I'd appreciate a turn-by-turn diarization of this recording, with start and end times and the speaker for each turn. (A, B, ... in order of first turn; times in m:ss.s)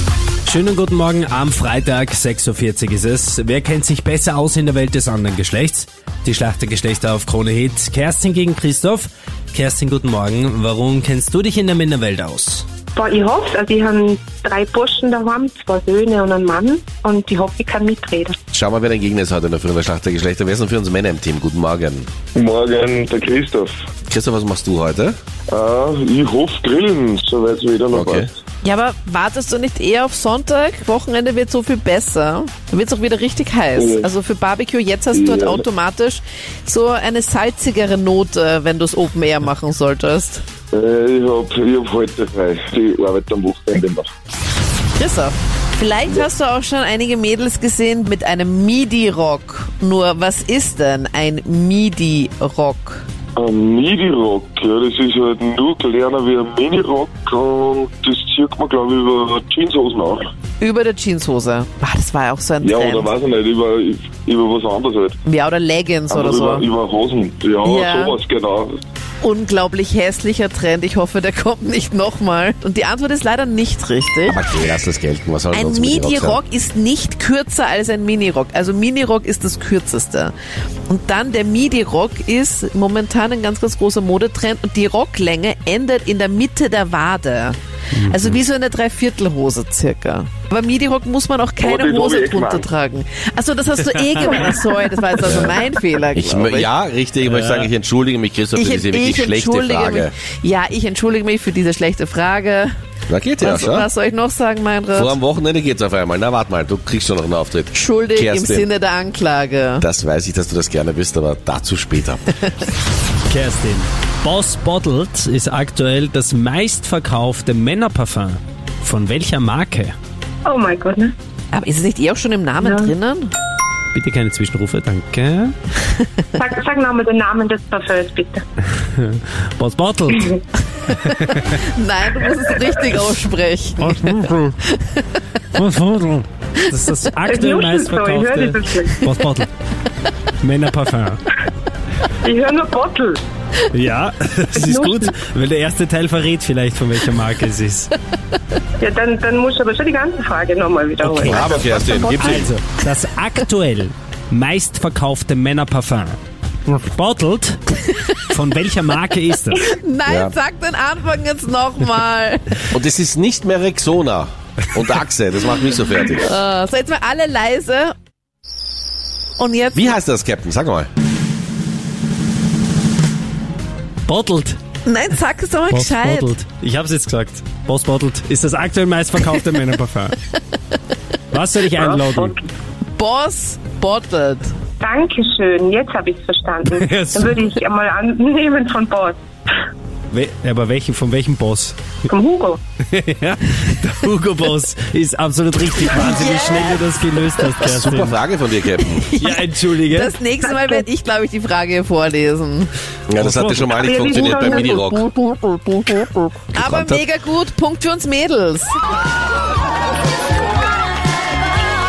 0:00.4-0:12.6 A
0:12.9-0:18.4 B
0:18.5-0:22.1 C
0:22.3-0:23.7 D
0:24.1-0:25.2 C
0:25.5-0:28.3 D
0:27.9-0:28.3 C
0:28.6-0:40.4 E
0:33.7-0:34.1 D
0:35.1-0:35.6 D
0:40.7-0:44.1 D
0:45.0-0:53.0 E
0:53.4-1:00.3 D
1:00.6-1:03.1 E
1:02.6-1:05.2 D
1:05.2-1:06.6 E
1:06.1-1:08.8 D
1:07.6-1:08.2 E
1:09.2-1:14.4 E
1:14.3-1:16.4 C
1:15.5-1:20.3 E
1:20.9-1:36.7 E
1:27.9-1:28.4 A
1:31.6-1:32.7 D
1:33.9-1:34.2 A
1:35.2-1:35.6 C
1:36.1-1:40.1 C
1:37.2-1:37.7 A
1:38.5-1:42.7 E
1:43.1-1:43.9 C
1:43.4-1:45.1 E
1:44.9-1:48.7 C
1:47.7-1:49.8 E
1:49.8-1:52.4 C
1:53.3-1:59.9 A
2:00.4-2:01.1 B
2:01.5-2:03.3 E
2:02.6-2:02.9 B
2:03.9-2:05.5 A
2:06.3-2:08.4 B
2:08.8-2:11.6 A
2:11.5-2:14.1 E
2:13.8-2:14.6 A
2:14.6-2:15.0 E
2:15.5-2:19.5 A
2:17.3-2:19.0 B
2:20.4-2:21.2 A
2:22.2-2:23.2 B
2:23.7-2:27.9 A
2:24.5-2:25.1 B
2:28.8-2:32.2 B
2:31.0-2:31.5 A
2:31.2-2:32.5 C
2:32.1-2:39.7 A
2:39.6-2:42.6 E
2:40.1-2:40.3 C
2:42.7-2:46.3 C
2:46.2-2:47.9 E
2:49.4-2:50.0 E
2:49.7-2:50.9 C
2:54.1-2:54.6 A
2:54.8-2:56.3 E
2:55.7-3:00.2 A
3:01.3-3:02.3 A
3:01.7-3:02.5 B
3:03.0-3:04.5 E
3:04.8-3:09.2 B
3:06.7-3:07.3 A
3:10.1-3:11.8 A
3:12.1-3:12.6 B
3:12.9-3:18.2 A
3:15.9-3:16.8 E
3:17.6-3:19.0 C
3:18.8-3:22.7 E
3:19.2-3:20.1 A
3:20.4-3:20.8 B
3:23.1-3:25.1 C
3:23.2-3:23.8 A
3:23.7-3:24.8 B
3:25.0-3:28.7 E
3:26.6-3:27.0 C